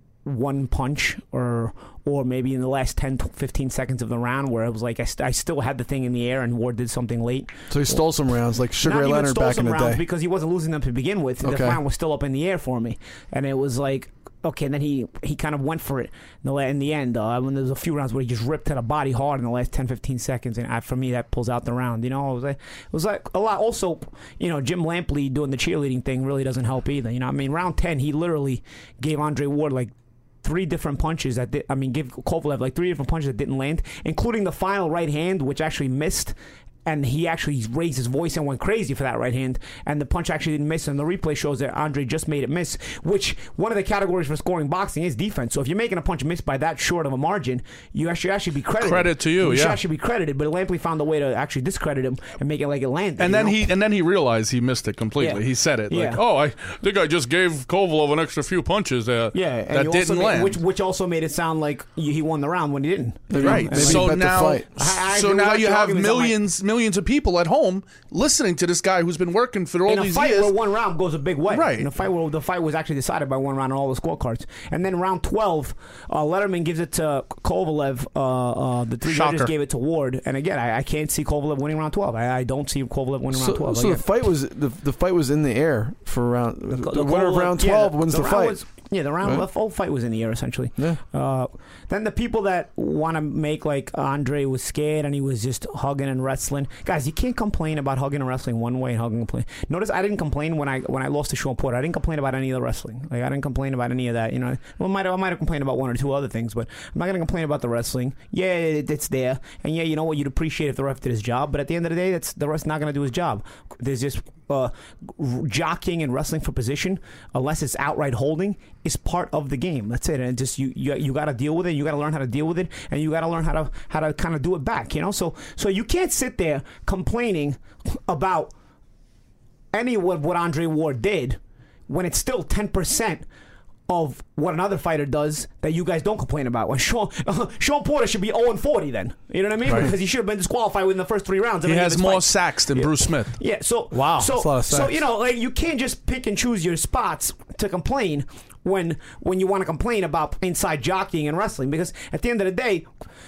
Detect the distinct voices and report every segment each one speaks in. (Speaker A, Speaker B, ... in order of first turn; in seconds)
Speaker A: 0.2-8.0, 8.8-29.9, 30.4-53.6, 55.2-56.2, 59.3-66.3, 69.8-84.0, 86.7-128.5, 129.7-133.2, 133.9-152.9
Speaker B: 7.7-10.0, 11.4-11.8, 63.3-64.7, 83.3-88.6, 144.3-144.9
Speaker C: 48.8-49.8, 53.2-60.6, 63.4-70.5, 71.5-71.9, 79.0-79.5, 141.7-143.3, 143.9-144.3